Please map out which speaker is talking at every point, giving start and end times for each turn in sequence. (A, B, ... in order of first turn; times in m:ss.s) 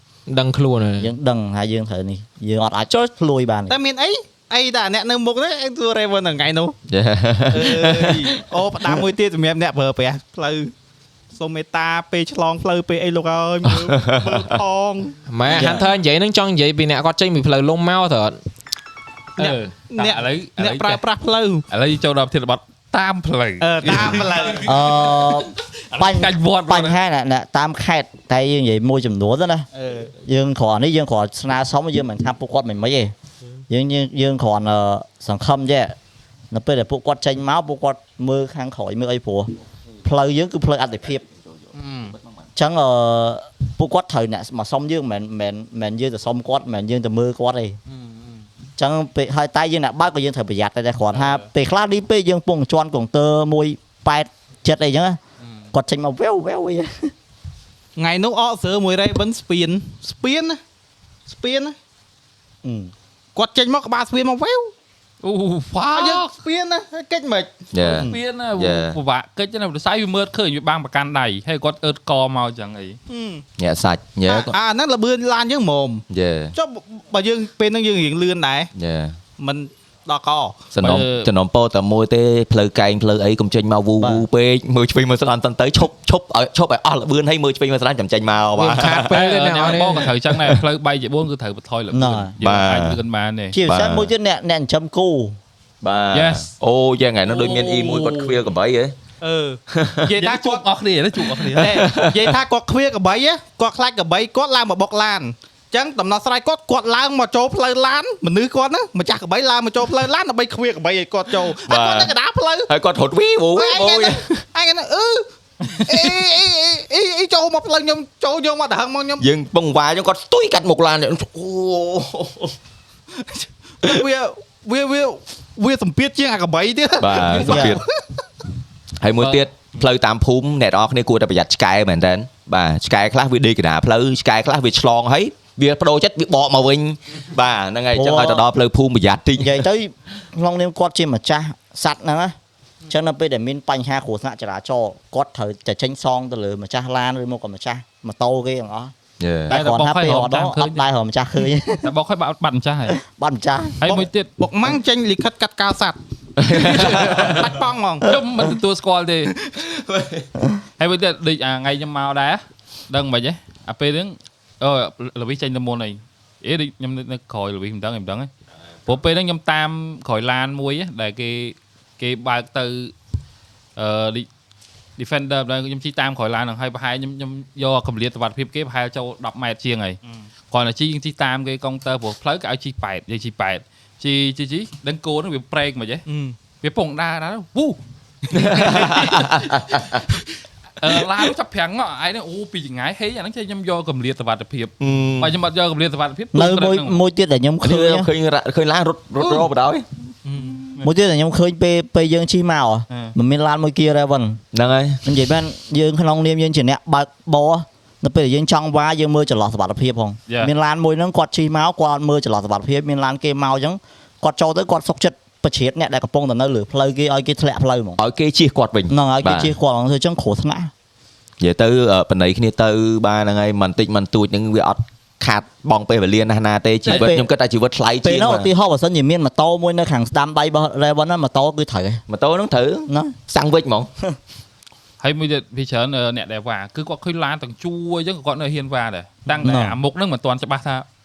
0:00.3-0:01.1 A
0:01.0-0:03.7 B
0:03.7-0:06.7 C
0:06.9-0:08.4 D
0:07.5-0:10.7 C
0:11.3-0:15.1 C
0:13.7-0:14.5 D
0:15.3-0:18.4 A
0:15.5-0:15.8 B
0:19.4-0:21.0 E
0:19.4-0:21.6 C
0:21.7-0:24.6 E
0:23.6-0:24.7 C
0:24.6-0:29.7 B
0:25.9-0:27.0 E
0:29.7-0:30.1 C
0:30.2-0:33.1 B
0:33.7-0:35.9 B
0:36.5-0:39.5 B
0:40.0-0:41.2 B
0:41.7-0:42.2 C
0:42.6-0:47.8 B
0:47.9-0:48.4 C
0:48.8-0:55.2 B
0:55.7-0:57.1 B
0:58.0-1:00.6 C
1:01.3-1:01.7 C
1:02.6-1:02.9 B
1:03.4-1:04.7 C
1:05.2-1:06.3 E
1:05.9-1:07.5 C
1:07.7-1:09.0 D
1:07.8-1:13.0 E
1:13.1-1:13.4 C
1:13.6-1:14.6 D
1:14.2-1:16.0 C
1:16.1-1:16.5 D
1:16.5-1:18.7 C
1:18.7-1:19.2 D
1:19.4-1:20.6 C
1:20.7-1:29.1 D
1:20.8-1:21.3 E
1:24.0-1:24.2 B
1:28.6-1:30.1 A
1:29.0-1:33.6 E
1:31.9-1:32.3 B
1:32.4-1:33.0 D
1:33.5-1:35.4 B
1:33.6-1:34.1 D
1:35.8-1:38.9 D
1:36.1-1:36.5 E
1:37.2-1:38.4 E
1:39.2-1:40.6 C
1:39.7-1:40.1 D
1:40.1-1:41.8 E
1:41.5-1:42.4 D
1:41.6-1:52.7 C
1:51.6-1:52.2 D
1:52.7-1:54.4 D
1:53.5-1:59.2 C
1:59.2-2:02.5 D
2:03.2-2:08.0 C
2:07.0-2:07.8 D
2:07.4-2:07.8 B
2:09.0-2:19.6 D
2:17.9-2:18.4 B
2:19.4-2:22.3 B
2:22.9-2:28.9 B
2:29.2-2:29.5 D
2:29.5-2:31.9 B
2:29.5-2:30.8 E
2:31.8-2:33.0 E
2:33.0-2:33.9 B
2:33.8-2:34.3 E
2:33.8-2:36.0 C
2:36.4-2:37.3 D
2:36.5-2:38.1 C
2:38.0-2:39.3 E
2:39.6-2:40.2 D
2:40.8-2:48.3 E
2:48.8-2:52.9 E
2:53.8-2:54.3 E
2:55.0-3:00.0 E
3:00.5-3:06.0 E
3:06.1-3:06.3 C
3:06.6-3:07.8 E
3:08.3-3:10.0 D
3:08.4-3:09.3 E
3:10.8-3:17.0 E
3:14.8-3:15.3 D
3:16.3-3:18.1 B
3:17.6-3:19.8 D
3:20.2-3:20.8 C
3:20.8-3:24.4 B
3:24.5-3:25.0 D
3:25.0-3:38.0 B
3:38.0-3:39.5 D
3:38.9-3:40.7 B
3:41.4-3:48.5 D
3:46.8-3:47.3 B
3:48.0-3:52.0 B
3:52.1-3:53.9 D
3:52.9-3:53.1 B
3:55.0-4:00.8 E
3:59.4-3:59.8 B